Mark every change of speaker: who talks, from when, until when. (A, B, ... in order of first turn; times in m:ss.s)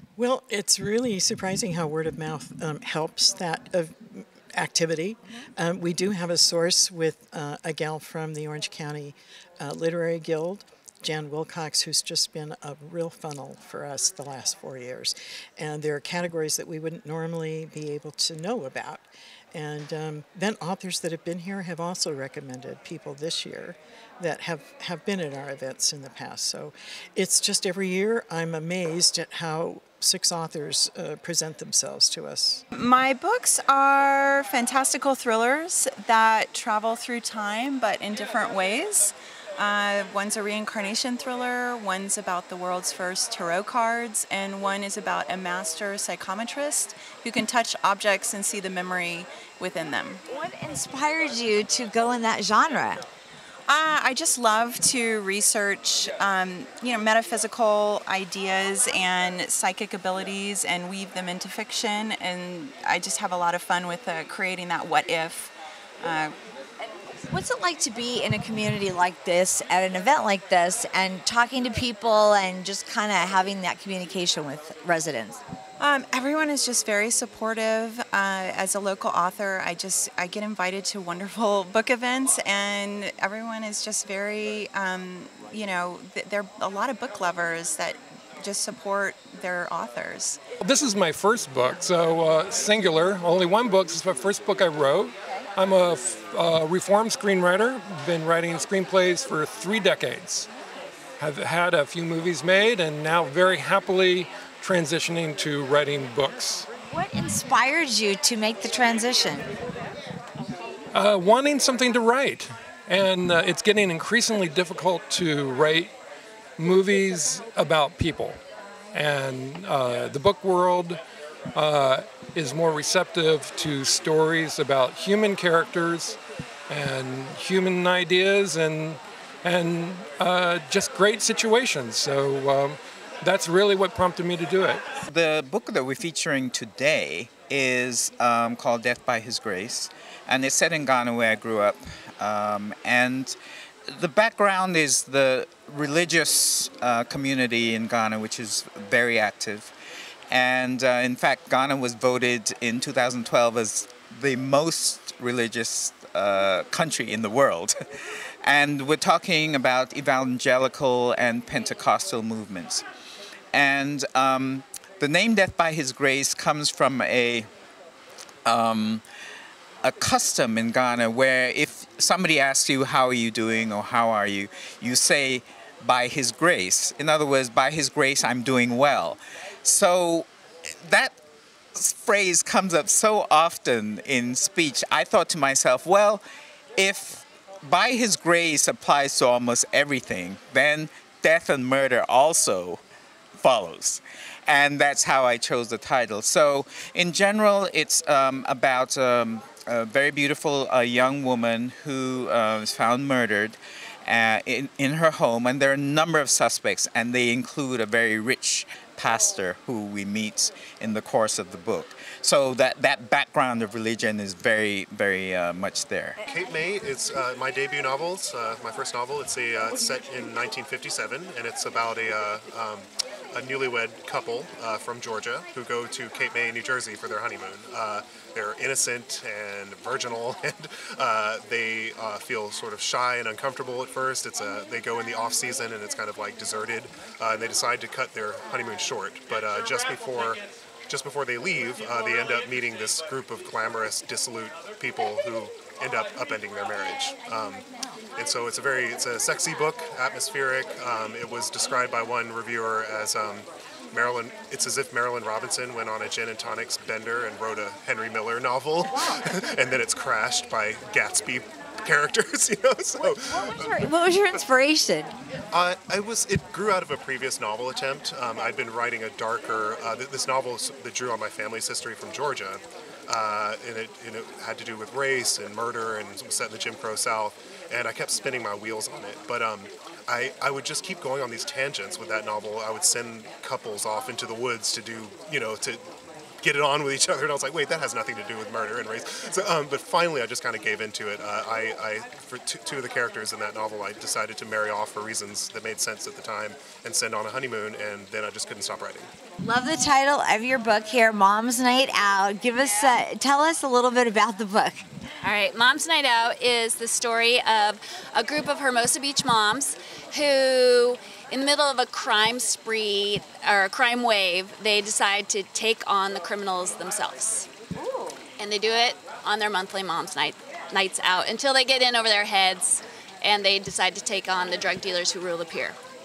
0:00.2-0:32.6 A
0:32.7-0:50.2 B
0:50.3-0:53.0 C
0:53.7-1:06.4 B
1:07.2-1:15.4 C
1:15.8-1:30.4 B
1:30.6-1:40.5 D
1:41.2-1:46.7 D
1:46.8-1:49.5 C
1:50.9-1:55.9 D
1:56.6-1:58.4 D
1:58.9-2:01.0 D
2:01.5-2:06.2 D
2:06.7-2:14.8 D
2:15.0-2:29.7 E
2:30.3-2:37.8 E
2:38.4-2:42.8 E
2:43.5-2:47.5 E
2:48.4-2:49.0 E
2:49.8-3:01.2 E
3:01.7-3:06.2 E
3:06.8-3:12.8 E
3:13.4-3:36.2 E
3:36.2-4:07.6 F
4:08.2-4:23.6 F
4:18.9-4:19.5 C
4:23.0-4:25.2 C
4:25.5-4:45.8 F
4:46.4-4:59.1 F
4:59.4-5:04.9 C
5:05.2-5:17.5 G
5:17.8-5:18.2 C
5:18.4-5:25.8 G